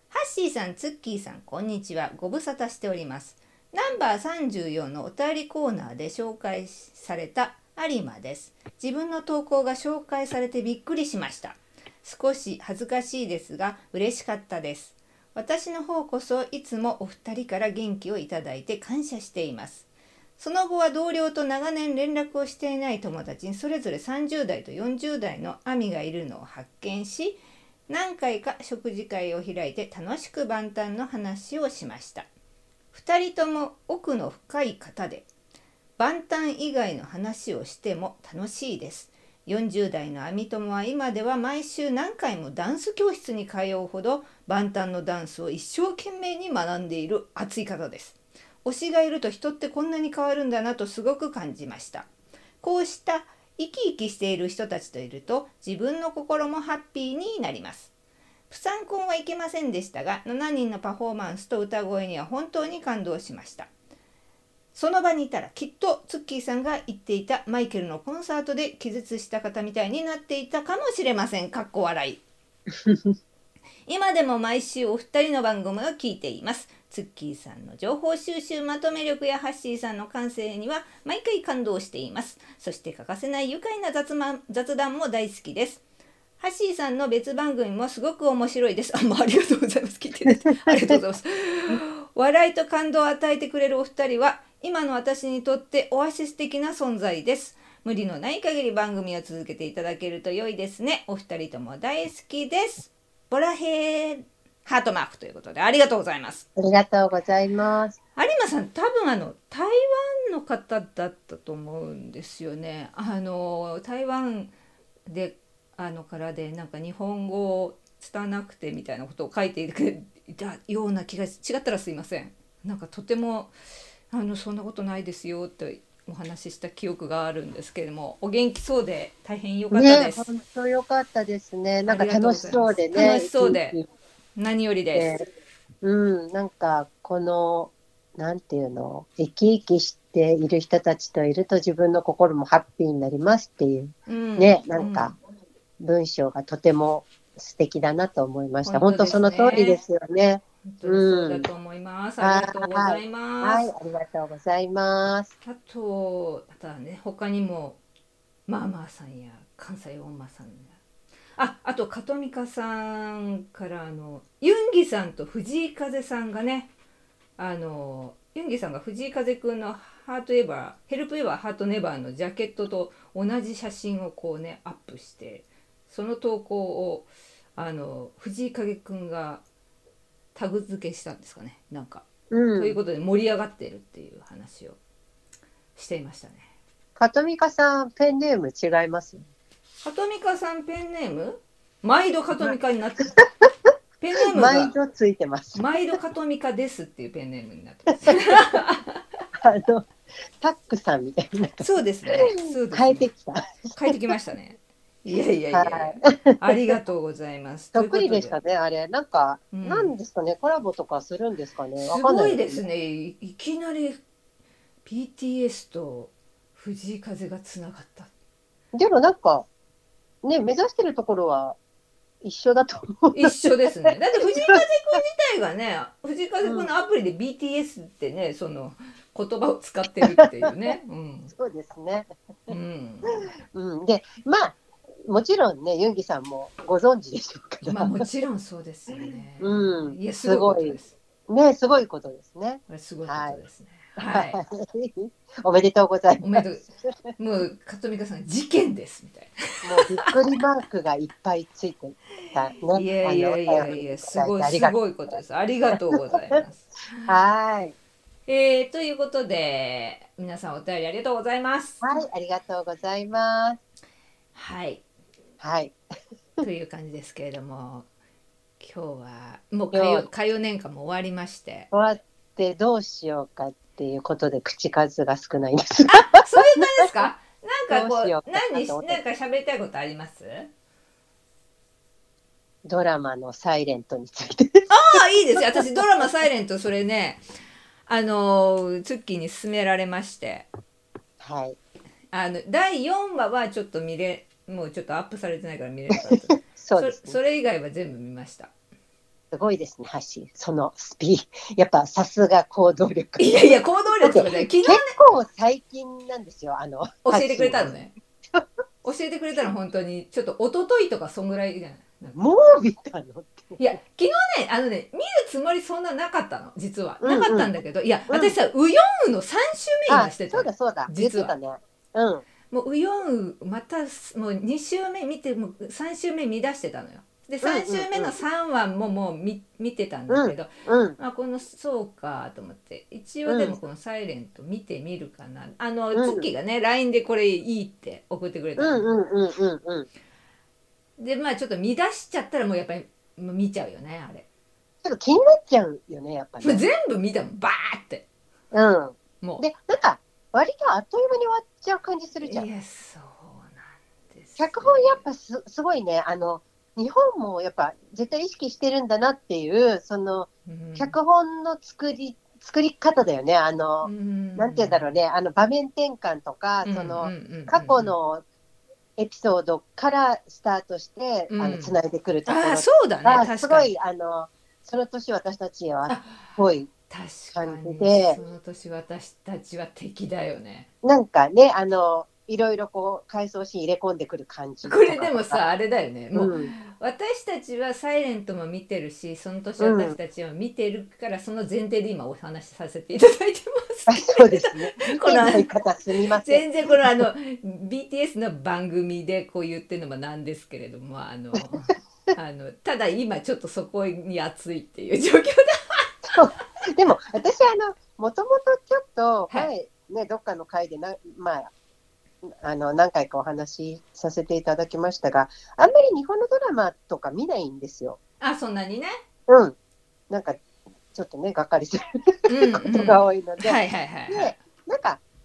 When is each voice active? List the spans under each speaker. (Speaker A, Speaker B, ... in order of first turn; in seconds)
Speaker A: 0.1-19.9, 20.4-32.3, 32.9-35.3, 36.0-52.1, 52.6-57.9, 58.5-63.7, 64.7-72.2, 73.9-85.8, 86.4-106.5, 108.2-114.5, 115.1-123.5, 124.1-130.3, 131.9-133.8, 134.4-135.1, 144.1-145.2, 148.7-149.8, 150.7-153.7, 155.4-157.8, 158.5-160.7, 161.4-166.7, 167.4-179.4, 180.3-182.1, 182.6-184.8, 185.8-186.5, 189.8-193.1, 194.0-194.7, 195.6-199.0, 201.6-203.1, 203.8-208.4, 209.5-209.9, 211.8-214.0, 214.8-218.1, 223.1-231.3, 232.5-233.2, 237.7-240.9, 242.7-244.4, 246.2-246.6, 247.2-250.1, 252.7-257.1, 258.3-261.8, 264.3-264.8, 266.4-267.9, 268.6-271.7, 275.9-280.5, 284.7-287.2, 287.9-290.5, 292.1-298.5, 303.2-304.9, 307.1-307.9, 308.8-312.2, 313.6-321.3, 322.5-338.9, 341.0-344.3, 346.4-348.1, 352.2-355.0, 360.4-360.9, 363.8-364.9, 366.6-367.9, 371.3-371.8, 372.3-373.7, 375.9-380.7, 384.6-395.5, 396.2-406.2, 418.2-419.0, 422.3-424.3
Speaker B: 90.4-91.0, 106.6-108.0, 129.7-133.9, 134.9-135.3, 135.8-145.2, 145.8-151.5, 152.2-155.3, 182.3-182.8, 187.0-189.2, 194.3-195.8, 198.0-198.4, 199.4-199.9, 200.4-203.9, 205.5-206.8, 207.7-212.6, 218.7-219.5, 220.2-221.6, 222.2-224.6, 226.4-226.7, 231.3-232.1, 233.1-238.0, 238.9-243.4, 244.0-246.9, 249.6-254.8, 257.0-257.8, 261.8-263.6, 265.4-265.8, 269.7-270.1, 271.7-277.1, 277.7-279.0, 282.6-286.1, 291.2-291.6, 296.3-297.2, 299.3-307.7, 312.1-313.6, 317.0-317.5, 318.1-318.4, 319.9-322.2, 327.4-328.2, 330.1-331.0, 333.3-333.6, 335.9-336.3, 338.6-339.9, 344.8-346.6, 348.5-352.5, 354.4-368.2, 369.0-376.7, 377.3-378.2, 380.8-385.4, 386.1-386.5, 389.6-390.0, 393.9-397.1, 406.1-411.5, 412.2-418.0, 419.3-419.6, 420.1-420.4, 420.9-423.6, 424.1-425.0